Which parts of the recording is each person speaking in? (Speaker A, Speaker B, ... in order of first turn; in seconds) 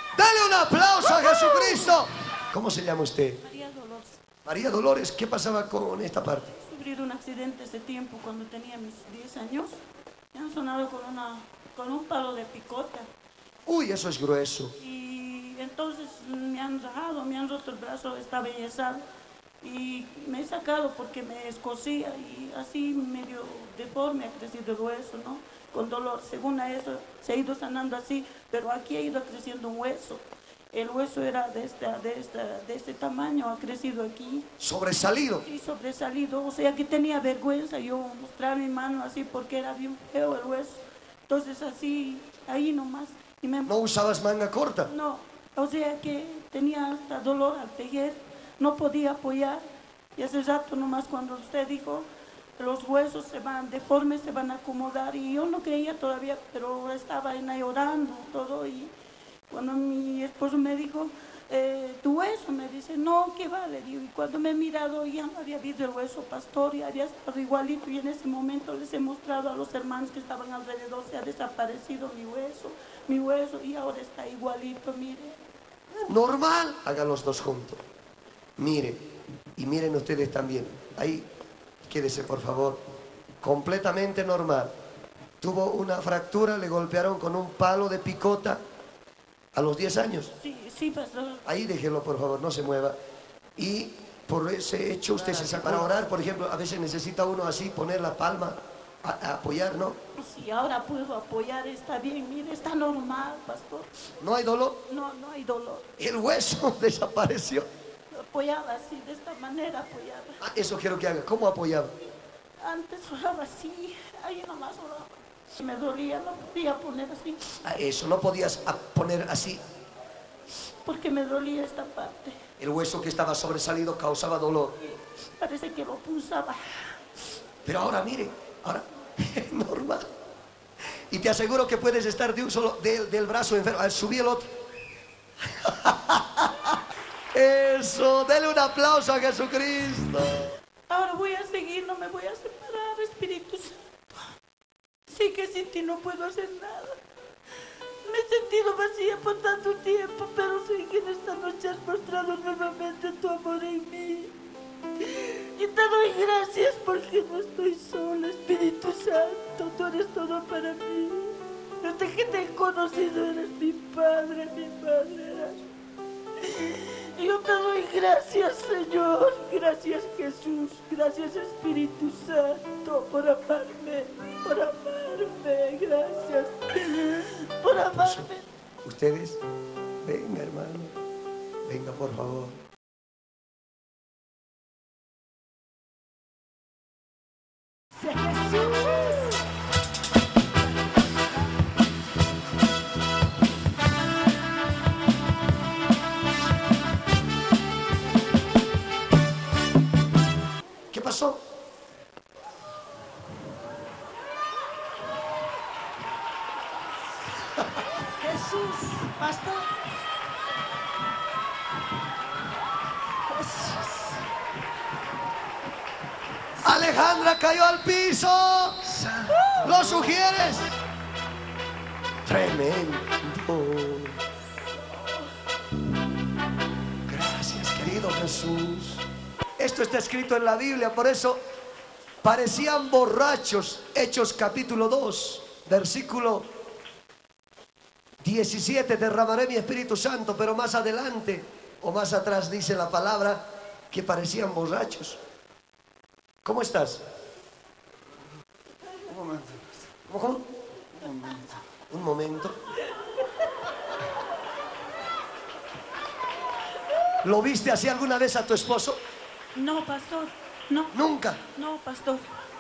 Speaker A: 0.1-3.4, 4.4-6.5, 13.7-14.7, 34.6-35.4, 43.6-44.9, 76.1-77.8, 78.6-79.0, 79.6-81.3, 81.8-82.8, 83.4-84.7, 85.4-88.6, 89.5-90.3, 91.5-93.0, 93.6-100.0, 104.2-104.8, 106.0-107.7, 110.4-111.9, 117.6-119.6, 122.6-124.7, 127.6-130.0, 131.1-134.5, 135.4-136.8, 137.3-140.5, 177.9-178.3, 178.8-179.4, 180.0-180.9, 181.7-182.6, 200.9-201.4, 216.6-218.9, 219.5-220.8, 222.2-224.2, 227.1-229.1, 229.6-231.4, 232.2-236.5, 238.2-245.2, 246.4-247.0, 250.1-250.5, 251.9-252.6, 257.2-259.0, 260.9-261.4
Speaker B: 3.4-4.2, 6.5-9.8, 10.3-13.1, 14.8-19.0, 19.6-34.5, 35.4-43.7, 44.9-49.6, 50.1-58.9, 59.5-75.4, 90.4-91.4, 100.2-103.9, 104.9-105.9, 108.1-110.4, 112.6-117.4, 120.8-122.4, 124.8-127.0, 140.9-144.2, 145.1-147.0, 148.0-154.3, 155.0-165.7, 166.4-178.5, 259.5-262.3
Speaker C: 95.2-95.9, 249.1-249.9, 250.9-251.6
Speaker D: 187.9-189.4, 190.9-191.4, 208.2-209.7, 213.3-213.9